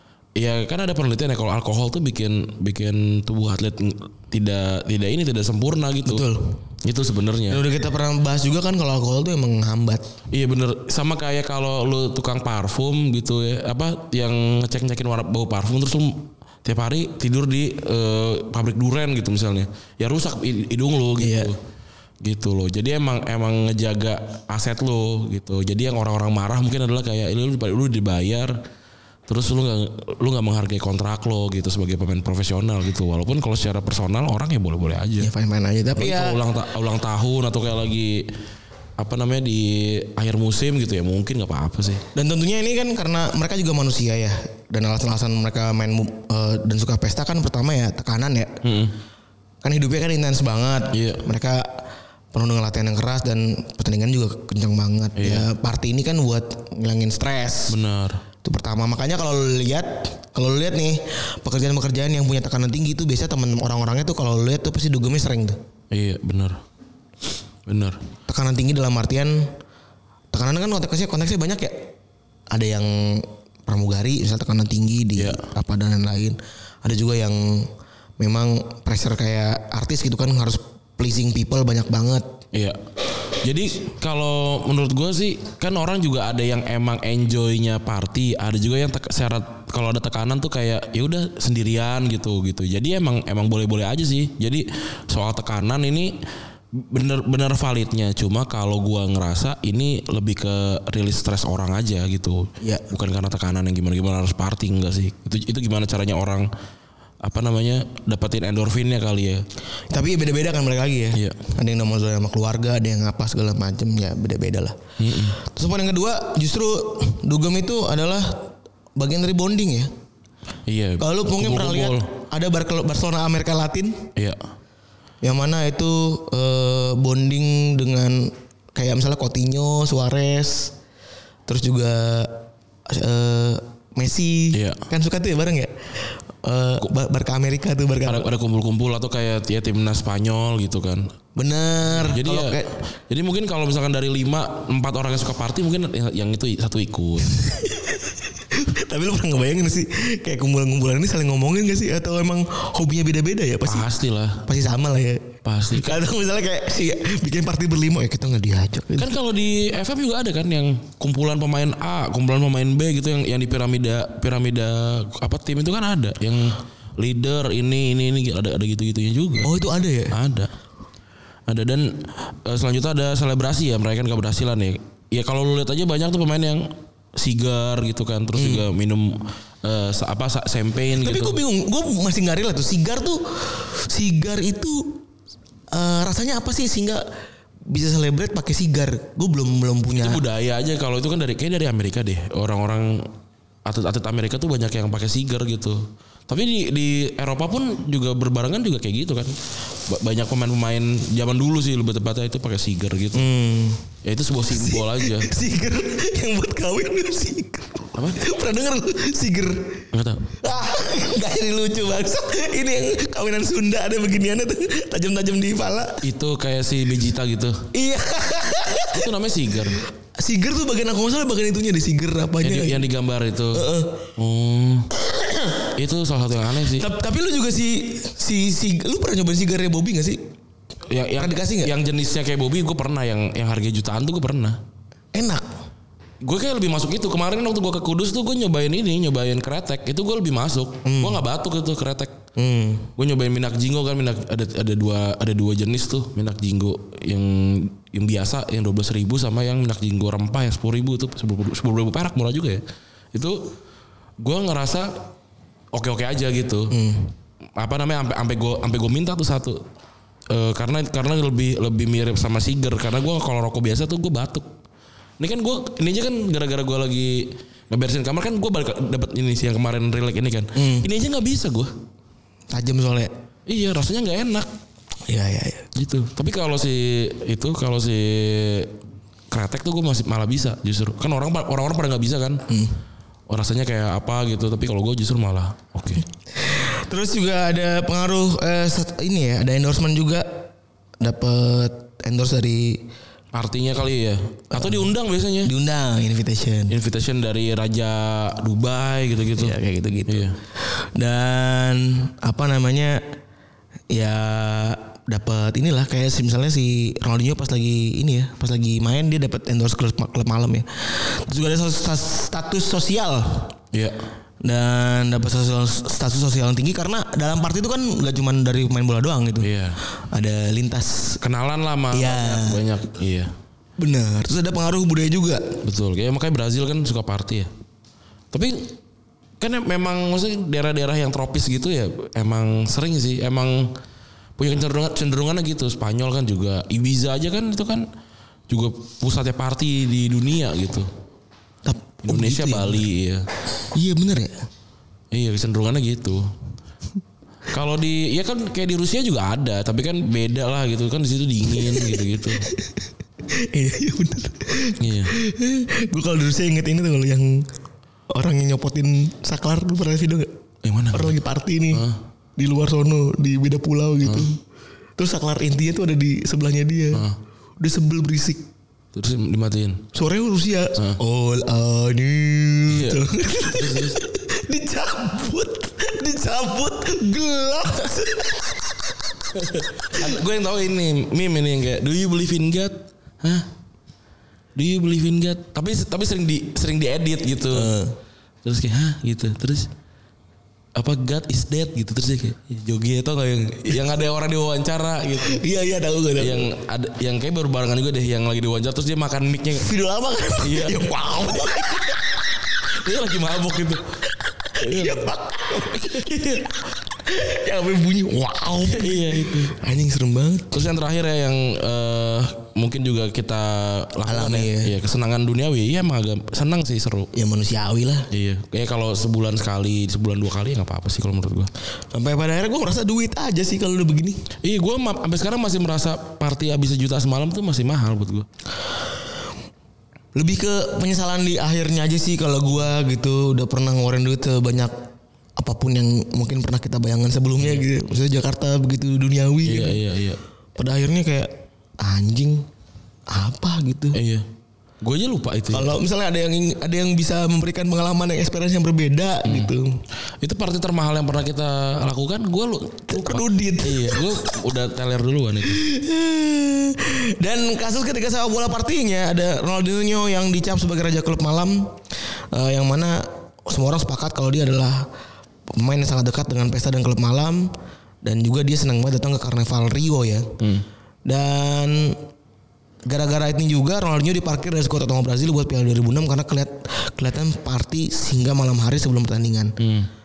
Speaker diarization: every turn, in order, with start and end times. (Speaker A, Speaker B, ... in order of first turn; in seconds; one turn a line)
Speaker A: 0.4-6.2
Speaker B: 6.0-6.6
Speaker A: 6.8-7.6
Speaker B: 7.5-10.0
Speaker A: 10.3-21.6
Speaker B: 21.2-21.5
Speaker A: 22.2-28.5
Speaker A: 29.3-35.3
Speaker B: 35.2-36.4
Speaker A: 36.0-38.3
Speaker A: 39.0-42.0
Speaker B: 42.1-48.6
Speaker A: 48.6-48.9
Speaker B: 49.6-57.8
Speaker A: 50.9-51.2
Speaker A: 55.1-55.5
Speaker A: 57.7-58.2
Speaker B: 58.4-65.6
Speaker A: 65.9-66.6
Speaker A: 67.7-68.0
Speaker B: 68.3-69.5
Speaker B: 70.3-71.9
Speaker B: 72.5-82.3
Speaker A: 75.2-75.5
Speaker A: 82.5-82.8
Speaker A: 83.4-96.1
Speaker A: 96.8-106.5
Speaker A: 107.2-109.4
Speaker B: 109.9-119.9
Speaker A: 115.0-115.4
Speaker A: 120.7-122.1
Speaker B: 121.0-124.1
Speaker B: 125.2-130.7
Speaker B: 131.5-138.3
Speaker A: 134.5-134.8
Speaker A: 138.0-141.1
Speaker B: 141.3-142.7
Speaker A: 141.8-147.4
Speaker B: 147.3-153.9
Speaker A: 153.6-154.4
Speaker B: 154.4-159.1
Speaker A: 155.4-156.0
Speaker A: 158.9-169.5
Speaker B: 169.4-170.2
Speaker A: 170.1-170.5
Speaker A: 171.5-181.4
Speaker B: 178.3-178.7
Speaker B: 180.9-185.0
Speaker B: 185.7-187.0
Speaker B: 187.7-190.2
Speaker A: 190.0-193.1
Speaker A: 193.7-199.3
Speaker A: 199.9-203.2
Speaker B: 203.1-203.9
Speaker A: 204.0-205.3
Speaker B: 204.4-209.8
Speaker A: 207.9-208.2
Speaker A: 209.9-210.3
Speaker B: 210.4-216.0
Speaker A: 216.0-217.7
Speaker B: 217.7-219.1
Speaker A: 218.8-219.8
Speaker B: 220.2-222.9
Speaker A: 222.4-224.9
Speaker B: 223.5-224.1
Speaker B: 225.2-225.5
Speaker A: 225.7-226.9
Speaker B: 226.7-230.2
Speaker A: 230.9-234.6
Speaker B: 231.2-231.7
Speaker B: 235.1-235.4
Speaker A: 236.2-242.2
Speaker B: 240.8-241.2
Speaker B: 242.3-242.9
Speaker A: 243.0-252.6
Speaker A: 253.1-253.5
Speaker A: 254.2-255.1
Speaker A: 255.7-256.8
Speaker B: 256.7-257.1
Speaker A: 257.6-259.6
Speaker A: 260.3-264.4
Speaker A: 265.2-271.7
Speaker B: 270.5-270.9
Speaker B: 272.5-273.1
Speaker A: 273.5-274.5
Speaker B: 275.1-275.7
Speaker A: 275.7-278.8
Speaker A: 279.3-282.4
Speaker B: 282.5-282.8
Speaker A: 283.3-286.0
Speaker B: 286.3-292.8
Speaker A: 293.3-295.5
Speaker B: 294.5-294.9
Speaker B: 295.4-296.8
Speaker A: 296.7-300.4
Speaker B: 299.4-303.0
Speaker B: 303.9-313.5
Speaker B: 314.4-321.2
Speaker A: 319.4-319.8
Speaker A: 321.2-323.3
Speaker B: 321.9-322.6
Speaker B: 323.8-325.4
Speaker A: 325.6-327.5
Speaker A: 328.3-328.7
Speaker A: 329.4-333.7
Speaker A: 334.4-337.9
Speaker A: 338.5-340.9
Speaker B: 341.6-342.8
Speaker A: 342.0-343.2
Speaker B: 343.7-344.3
Speaker A: 345.1-346.3
Speaker A: 347.5-352.5
Speaker B: 351.5-357.4
Speaker A: 354.8-355.1
Speaker B: 358.1-360.3
Speaker A: 360.6-361.1
Speaker B: 360.9-361.8
Speaker A: 361.7-362.0
Speaker B: 362.4-364.4
Speaker B: 365.0-367.1
Speaker A: 366.9-367.2
Speaker B: 367.6-368.5
Speaker A: 368.9-369.9
Speaker B: 369.9-379.3
Speaker A: 372.7-374.0
Speaker A: 379.3-383.5
Speaker A: 384.6-387.7
Speaker B: 387.5-388.0
Speaker A: 388.4-389.7
Speaker A: 390.8-395.4
Speaker B: 395.2-396.5
Speaker A: 396.2-399.7
Speaker B: 399.6-402.0
Speaker A: 400.4-402.0
Speaker A: 402.7-403.8
Speaker B: 404.3-410.8
Speaker A: 404.6-405.1
Speaker A: 405.9-406.5
Speaker A: 408.6-409.6
Speaker A: 410.5-417.1
Speaker B: 414.1-414.7
Speaker B: 417.1-418.1
Speaker A: 418.1-421.5
Speaker B: 421.9-424.2
Speaker A: 424.4-428.3
Speaker B: 430.1-434.7
Speaker B: 435.4-439.8
Speaker A: 439.4-440.2
Speaker B: 440.6-442.4
Speaker B: 443.1-444.0
Speaker A: 443.9-444.2
Speaker A: 444.8-445.7
Speaker B: 445.5-449.8
Speaker A: 449.2-449.5
Speaker A: 450.2-455.6
Speaker B: 452.9-454.4
Speaker B: 455.5-464.9
Speaker B: 465.5-467.5
Speaker B: 468.0-470.3
Speaker A: 470.4-470.6
Speaker B: 471.1-472.0
Speaker B: 472.9-479.5
Speaker A: 479.6-479.9